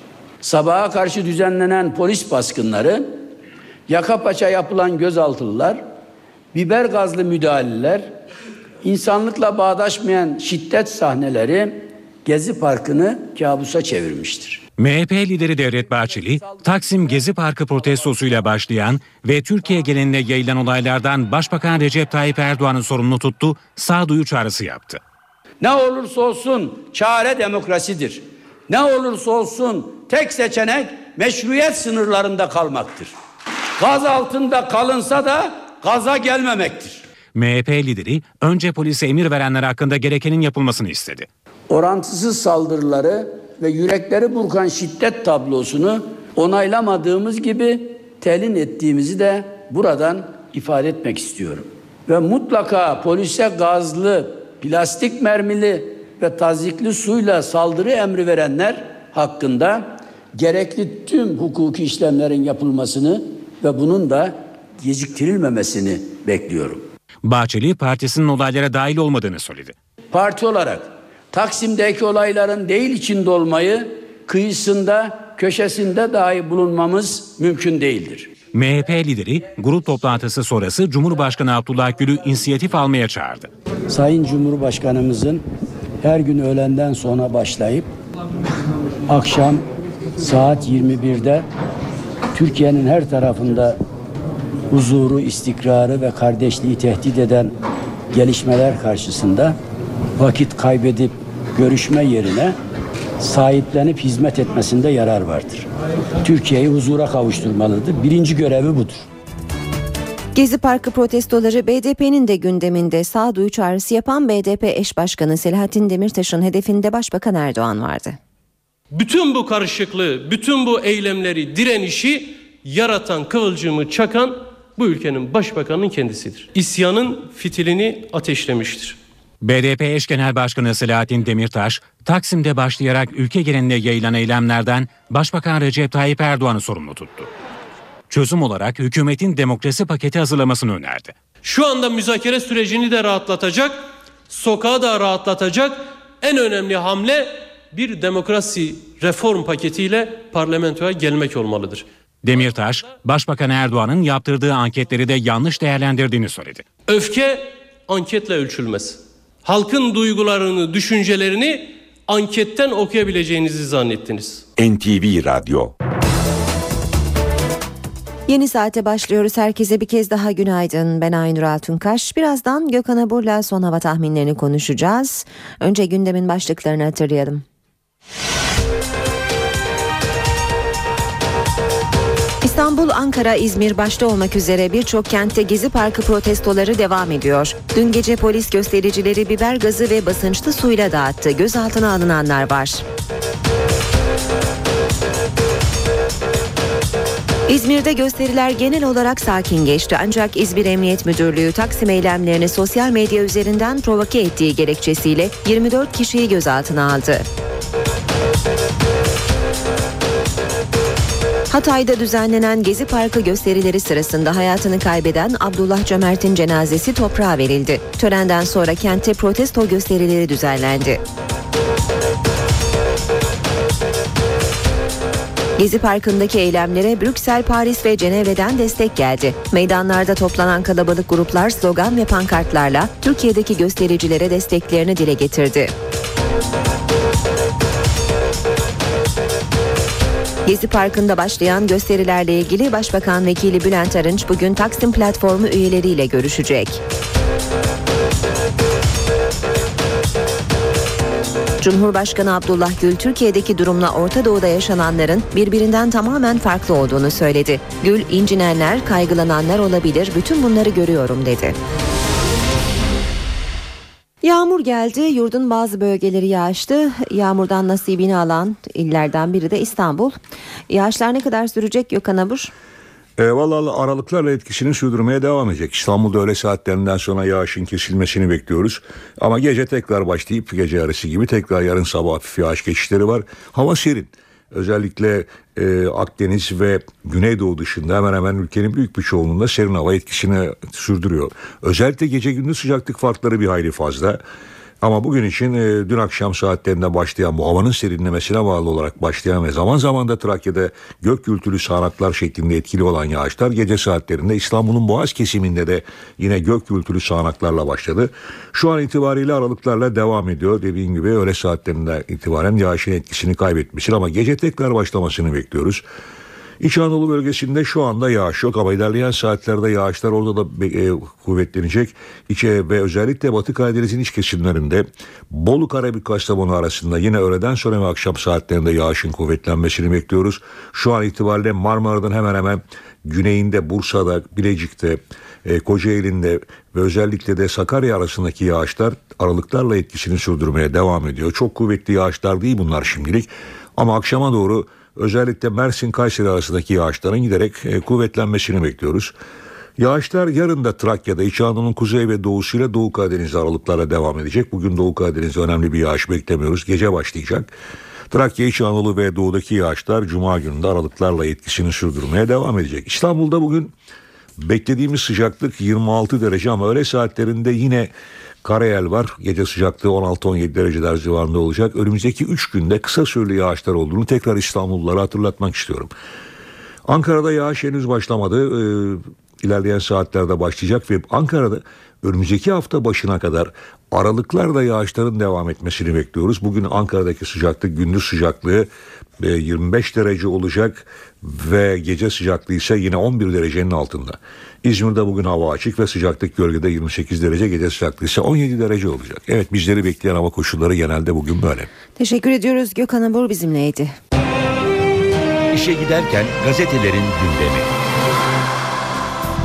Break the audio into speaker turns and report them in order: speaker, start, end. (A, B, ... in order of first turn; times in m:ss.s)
0:00.4-0:03.2 A
0:03.9-0:05.8 A
0:06.5-0:08.1 A
0:08.8-0:14.6 A
0:14.8-0:25.0 B
0:25.6-0:33.1 A
0:33.8-0:37.0 A
0:37.4-0:41.3 B
0:41.7-1:06.8 A
1:07.2-1:09.7 B
1:10.1-1:18.3 A
1:18.5-1:23.5 B
1:23.9-1:25.4 A
1:26.0-1:27.9 A
1:29.1-1:29.6 A
1:30.2-1:31.5 A
1:32.3-1:33.8 A
1:34.7-1:37.5 A
1:38.1-1:39.6 A
1:40.2-1:42.6 A
1:43.2-1:45.7 A
1:46.2-1:49.1 A
1:50.4-1:58.2 C
1:58.9-2:09.0 D
2:09.4-2:17.3 B
2:18.1-2:21.1 B
2:21.4-2:31.9 D
2:32.2-2:36.6 B
2:36.9-2:44.4 D
2:44.6-2:45.7 E
2:48.3-2:57.4 C
3:02.4-3:12.8 C
3:17.5-3:27.3 C
3:31.5-3:41.0 C
3:45.6-3:55.7 C
4:00.4-4:06.8 C
4:11.6-4:21.6 C
4:24.2-4:30.2 C
4:30.7-4:32.5 C
4:33.2-4:54.2 F
4:54.8-5:15.8 F
5:16.6-5:49.1 F
5:49.8-5:57.5 F
5:58.1-6:03.7 F
6:04.4-6:07.9 F
6:08.4-6:15.9 F
6:16.9-6:28.7 F
6:29.2-6:41.7 F
6:42.0-6:43.9 C
6:45.5-6:47.7 E